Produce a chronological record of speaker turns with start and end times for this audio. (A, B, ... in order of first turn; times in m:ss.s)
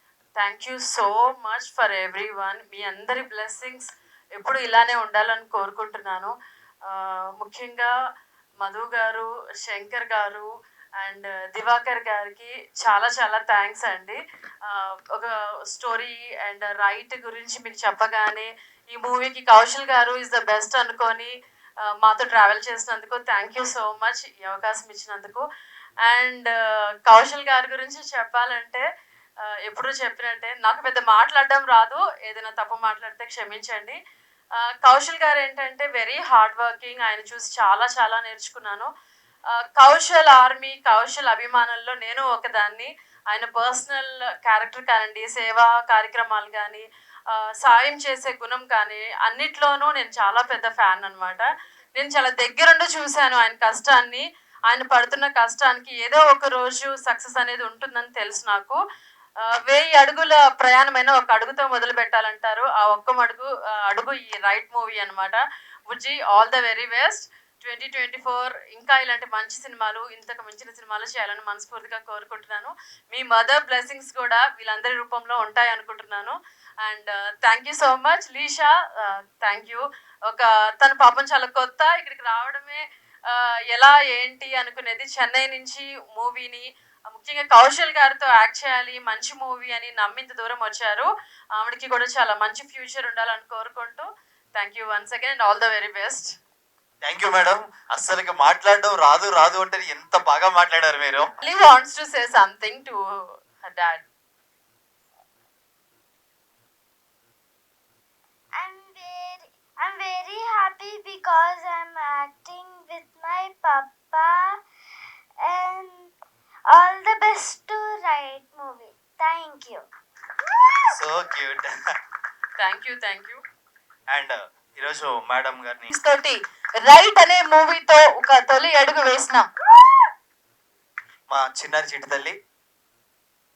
0:00.4-0:03.8 A
0:04.4-0:06.3 A
0:06.9-0:07.9 A
0:08.6-0:10.5 A
0:11.0-0:21.3 A
0:22.0-0:25.4 A
0:26.0-0:26.5 A
0:27.1-0:28.8 A
0:29.6-0:34.0 A
0:34.8-0:38.9 A
0:39.8-0:51.5 A
0:52.0-0:58.8 A
0:59.7-1:36.3 A
1:37.0-1:41.3 B
1:41.4-1:43.0 A
1:43.6-1:44.0 A
1:48.6-1:54.6 C
1:55.4-1:56.1 C
1:56.7-1:59.8 C
2:00.9-2:01.7 B
2:02.6-2:03.4 A
2:04.1-2:05.9 B
2:05.9-2:09.5 D
2:11.3-2:12.4 B